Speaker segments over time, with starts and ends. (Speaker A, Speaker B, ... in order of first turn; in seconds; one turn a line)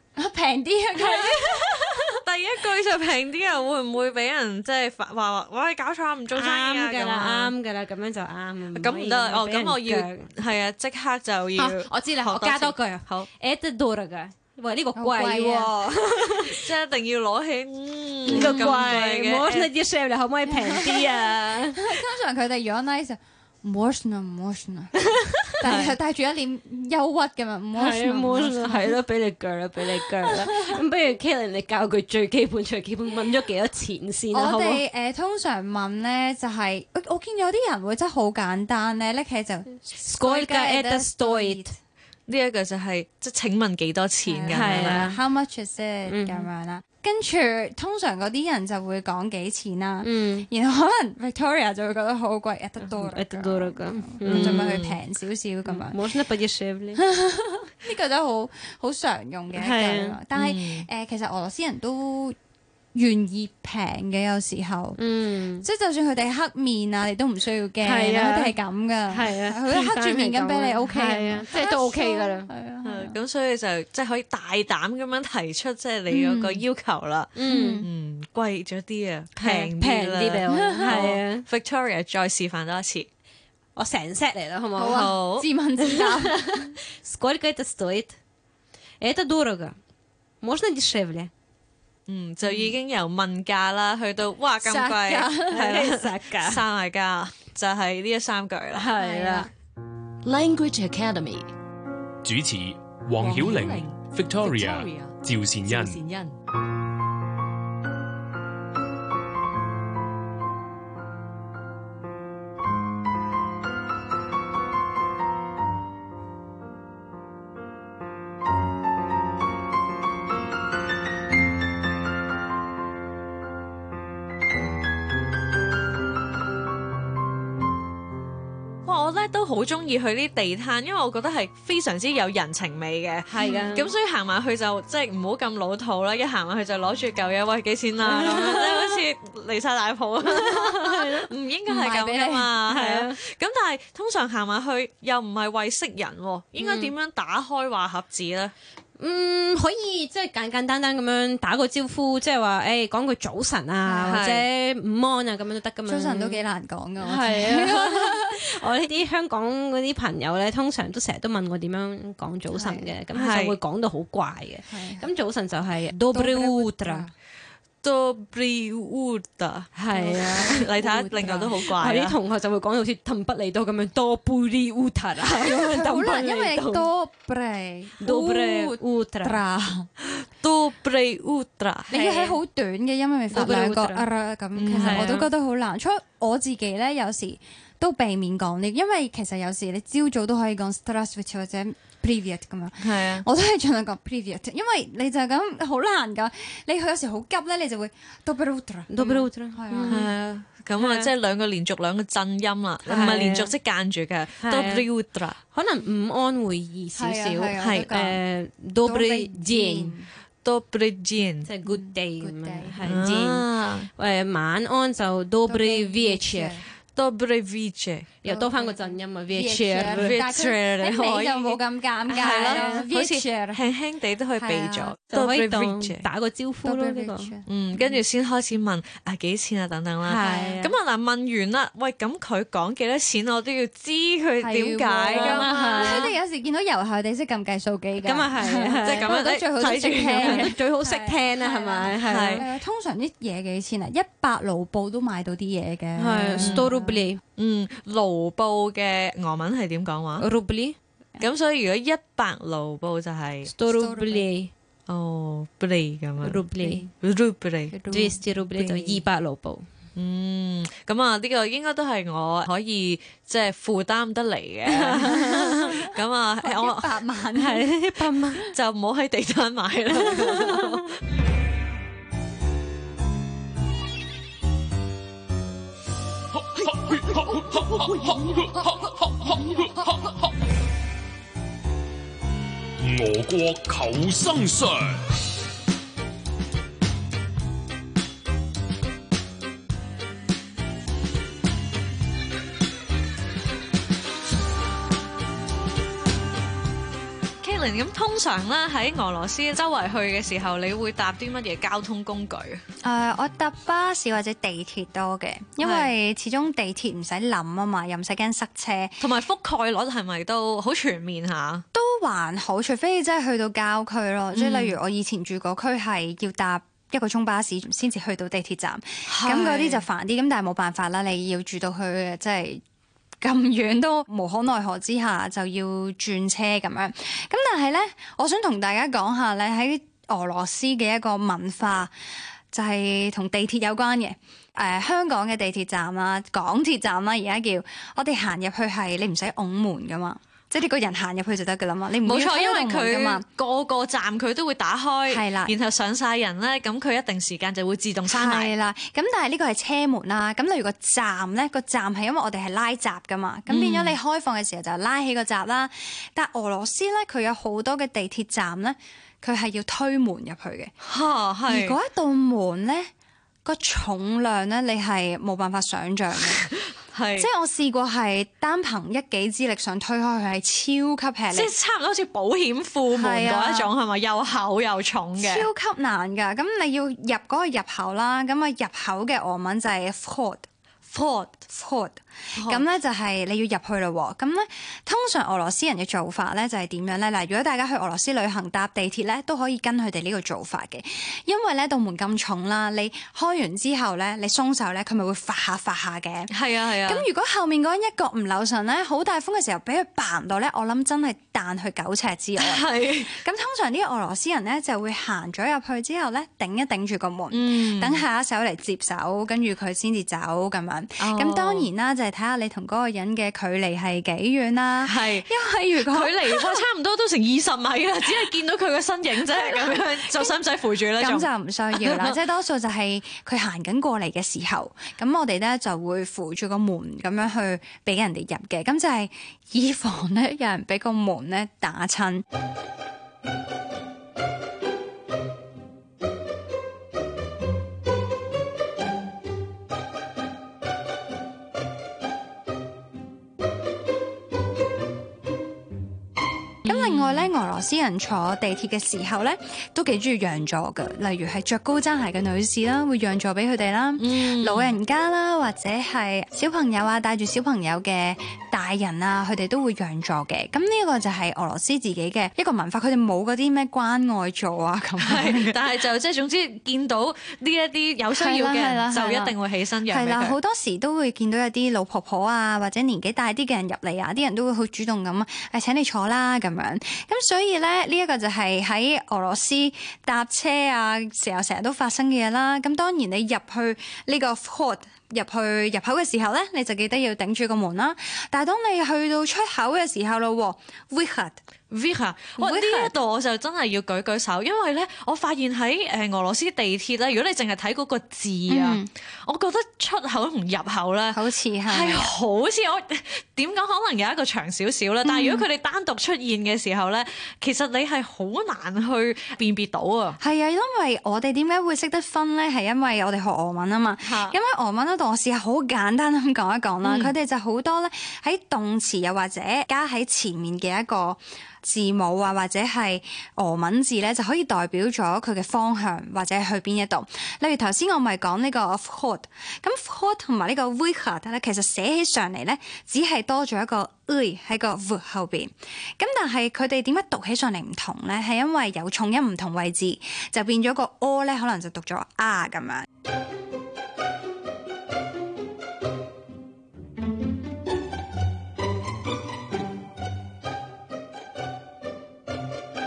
Speaker A: 0.2-2.0
Speaker B: 1.0-1.8
Speaker C: 2.2-7.5
Speaker B: 6.3-10.3
Speaker C: 8.7-13.3
Speaker B: 11.6-16.6
Speaker A: 14.9-16.1
Speaker C: 16.4-19.7
Speaker A: 18.3-18.9
Speaker B: 18.3-21.9
Speaker A: 20.5-29.0
Speaker B: 25.1-25.5
Speaker C: 25.6-26.0
Speaker B: 27.8-34.8
Speaker A: 30.2-30.8
Speaker A: 34.3-41.8
Speaker B: 40.0-41.7
Speaker C: 42.3-45.2
Speaker A: 44.2-56.0
Speaker B: 44.5-45.2
Speaker B: 46.1-46.5
Speaker B: 50.0-50.5
Speaker B: 52.8-54.7
Speaker C: 54.3-55.0
Speaker B: 55.7-57.0
Speaker A: 57.0-62.4
Speaker B: 59.5-60.2
Speaker C: 60.3-60.9
Speaker A: 62.9-65.0
Speaker B: 65.0-65.7
Speaker A: 65.6-73.2
Speaker B: 67.8-68.5
Speaker B: 69.1-72.5
Speaker C: 72.8-83.1
Speaker A: 76.1-76.6
Speaker B: 77.4-77.8
Speaker A: 77.5-77.9
Speaker B: 79.4-81.5
Speaker A: 80.5-81.1
Speaker B: 83.8-85.1
Speaker A: 84.8-86.8
Speaker C: 84.8-85.5
Speaker B: 85.8-88.2
Speaker B: 89.0-89.8
Speaker B: 90.4-91.3
Speaker C: 92.1-98.9
Speaker A: 94.6-95.6
Speaker B: 95.4-96.6
Speaker B: 98.7-99.5
Speaker A: 99.0-99.5
Speaker D: 100.2-101.5
Speaker E: 102.2-106.1
Speaker D: 103.2-106.3
Speaker C: 128.8-148.5
Speaker B: 133.3-133.9
Speaker A: 133.4-133.8
Speaker B: 138.1-139.0
Speaker B: 140.3-141.3
Speaker A: 141.7-142.5
Speaker B: 142.7-143.2
Speaker B: 146.6-146.9
Speaker B: 149.0-156.4
Speaker A: 153.9-154.1
Speaker C: 154.1-154.4
Speaker A: 155.9-158.4
Speaker B: 157.0-167.1
Speaker A: 162.5-162.9
Speaker C: 163.1-163.6
Speaker A: 164.7-165.1
Speaker A: 166.1-167.1
Speaker C: 167.8-169.7
Speaker B: 169.8-170.7
Speaker A: 169.9-171.6
Speaker C: 170.4-172.2
Speaker B: 171.7-176.9
Speaker A: 175.4-179.9
Speaker B: 178.0-179.4
Speaker C: 180.0-181.9
Speaker A: 181.9-200.1
Speaker B: 181.9-182.4
Speaker B: 183.3-184.1
Speaker C: 184.6-185.2
Speaker B: 184.7-185.3
Speaker C: 192.8-193.3
Speaker B: 198.9-200.1
Speaker C: 199.9-205.4
Speaker B: 200.8-201.1
Speaker B: 202.9-203.5
Speaker B: 204.4-204.9
Speaker B: 205.5-210.0
Speaker A: 207.0-208.2
Speaker C: 207.6-207.9
Speaker A: 208.8-210.1
Speaker C: 210.4-211.5
Speaker B: 211.4-216.6
Speaker A: 211.7-212.9
Speaker C: 212.8-213.9
Speaker A: 215.5-216.7
Speaker C: 216.9-218.1
Speaker B: 218.2-220.2
Speaker A: 218.2-223.6
Speaker C: 219.8-221.6
Speaker C: 222.1-226.0
Speaker B: 222.2-222.9
Speaker A: 224.4-224.9
Speaker B: 225.1-227.3
Speaker A: 226.6-228.0
Speaker C: 227.5-236.1
Speaker B: 230.0-230.8
Speaker A: 234.4-247.1
Speaker B: 235.1-236.1
Speaker B: 238.0-239.1
Speaker C: 238.8-240.5
Speaker B: 240.2-242.5
Speaker C: 242.0-242.4
Speaker B: 246.0-247.2
Speaker C: 246.4-246.7
Speaker C: 247.4-250.2
Speaker B: 250.2-250.8
Speaker C: 251.2-253.5
Speaker B: 253.4-254.5
Speaker A: 253.7-254.3
Speaker C: 254.9-257.8
Speaker B: 256.2-256.9
Speaker A: 257.7-258.3
Speaker B: 257.9-259.7
Speaker C: 258.6-258.9
Speaker C: 260.0-267.0
Speaker B: 264.8-265.7
Speaker A: 265.0-265.9
Speaker A: 266.4-267.7
Speaker B: 267.4-268.5
Speaker C: 268.5-270.9
Speaker B: 270.1-270.7
Speaker E: 276.6-280.1
Speaker E: 282.8-285.0
Speaker C: 297.4-302.6
Speaker A: 302.8-309.0
Speaker C: 305.6-305.9
Speaker C: 309.0-311.6
Speaker A: 311.7-322.6
Speaker C: 314.3-314.8
Speaker C: 319.1-319.9
Speaker A: 323.2-331.9
Speaker A: 332.5-343.2
Speaker C: 342.0-348.5
Speaker A: 345.1-345.6
Speaker A: 348.1-360.7
Speaker C: 353.5-354.0
Speaker C: 360.8-361.8
Speaker A: 361.5-362.9
Speaker A: 363.4-366.5
Speaker C: 366.5-367.3
Speaker A: 367.2-371.5
Speaker C: 371.3-375.5
Speaker A: 372.9-373.7
Speaker A: 375.2-380.5
Speaker C: 380.9-381.4
Speaker A: 381.4-396.3
Speaker C: 382.4-382.7
Speaker C: 396.3-397.1
Speaker A: 396.8-416.6
Speaker C: 402.4-403.2
Speaker C: 407.3-408.0
Speaker C: 411.0-411.7
Speaker C: 414.8-415.3
Speaker C: 415.9-422.2
Speaker A: 419.3-420.4
Speaker A: 421.0-432.2
Speaker A: 446.6-465.6
Speaker C: 446.7-447.3
Speaker C: 454.0-454.7
Speaker C: 465.0-470.4
Speaker A: 468.1-469.4
Speaker A: 469.9-491.4
Speaker C: 491.7-510.2
Speaker A: 492.4-492.9
Speaker A: 498.5-498.9
Speaker A: 501.1-502.1
Speaker A: 505.0-505.5
Speaker A: 510.2-542.9
Speaker C: 514.0-514.4
Speaker C: 516.8-517.1